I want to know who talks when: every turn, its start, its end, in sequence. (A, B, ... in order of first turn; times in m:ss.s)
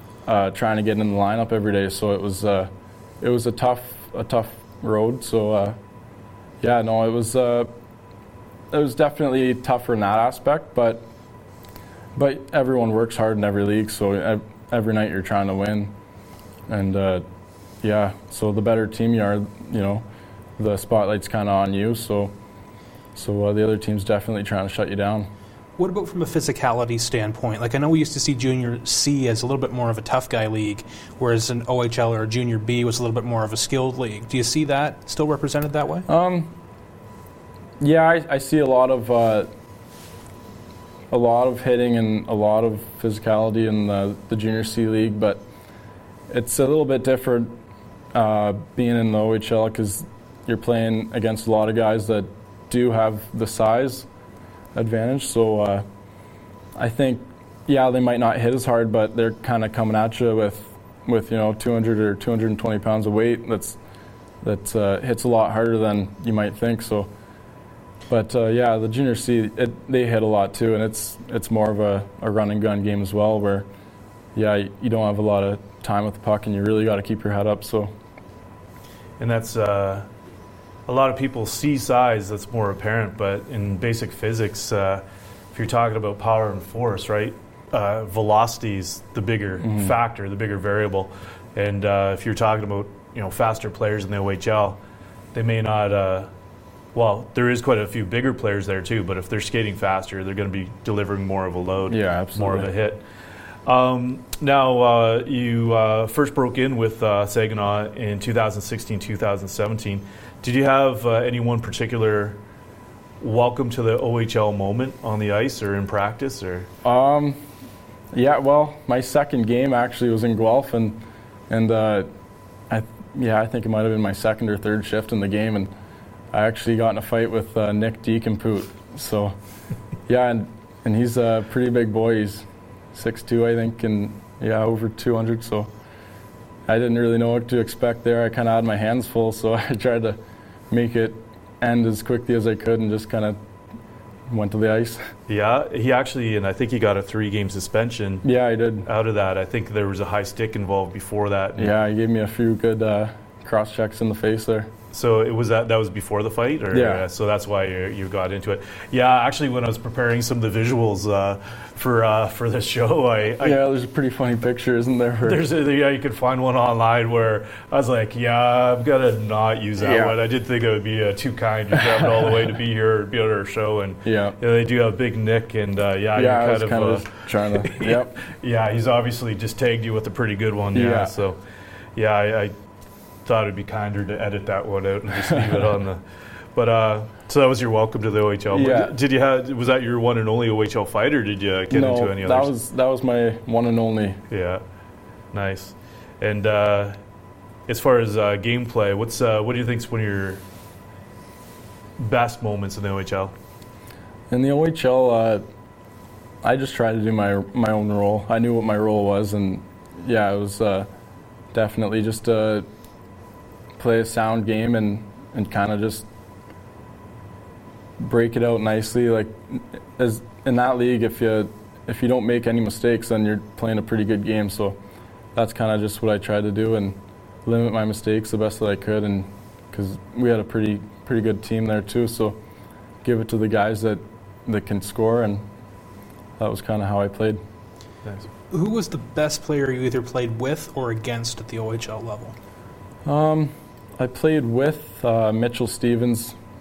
0:00.2-0:05.8 A
0:06.6-0:07.7 A
0:08.7-0:11.0 A
0:12.1-0:15.9 A
0:16.7-0:17.2 A
0:17.8-0:20.0 A
0:20.6-0:22.3 A
0:23.1-0:25.3 A
0:25.8-0:36.0 B
0:36.1-0:36.5 A
0:37.8-0:39.5 A
0:41.1-0:45.4 A
0:46.3-0:47.6 A
0:48.1-0:54.1 A
0:54.7-0:55.8 A
0:56.8-1:03.8 A
1:04.4-1:07.1 A
1:08.1-1:13.6 A
1:14.3-1:17.9 A
1:19.2-1:20.1 C
1:20.9-1:34.8 C
1:29.6-1:29.9 A
1:35.3-1:36.3 C
1:36.9-1:43.0 C
1:41.9-1:42.7 A
1:43.6-1:52.4 C
1:53.2-1:56.7 C
1:56.8-1:57.4 A
1:58.1-2:02.1 A
2:02.7-2:05.7 A
2:06.3-2:09.3 A
2:10.1-2:15.7 A
2:16.7-2:20.2 A
2:20.7-2:23.4 A
2:24.3-2:25.1 A
2:25.3-2:28.2 C
2:28.2-2:28.9 A
2:28.8-2:31.7 C
2:31.6-2:34.7 A
2:34.9-2:43.6 C
2:36.7-2:37.1 A
2:43.4-2:45.4 A
2:45.2-3:01.4 C
2:49.8-2:50.2 A
2:51.9-2:52.2 A
2:54.0-2:54.4 A
2:56.2-2:58.2 A
3:00.7-3:01.1 A
3:02.0-3:02.5 C
3:03.2-3:06.0 C
3:05.3-3:05.6 A
3:06.5-3:12.5 C
3:08.5-3:09.0 A
3:11.7-3:14.2 A
3:14.3-3:14.6 C
3:15.3-3:17.0 C
3:17.7-3:20.4 C
3:22.0-3:23.3 C
3:24.3-3:25.4 A
3:26.4-3:30.9 A
3:31.5-3:32.6 A
3:33.8-3:36.0 A
3:38.0-3:44.8 A
3:45.3-3:52.4 A
3:53.0-3:55.4 A
3:56.4-3:57.4 A
3:58.5-4:02.3 B
4:03.0-4:06.4 A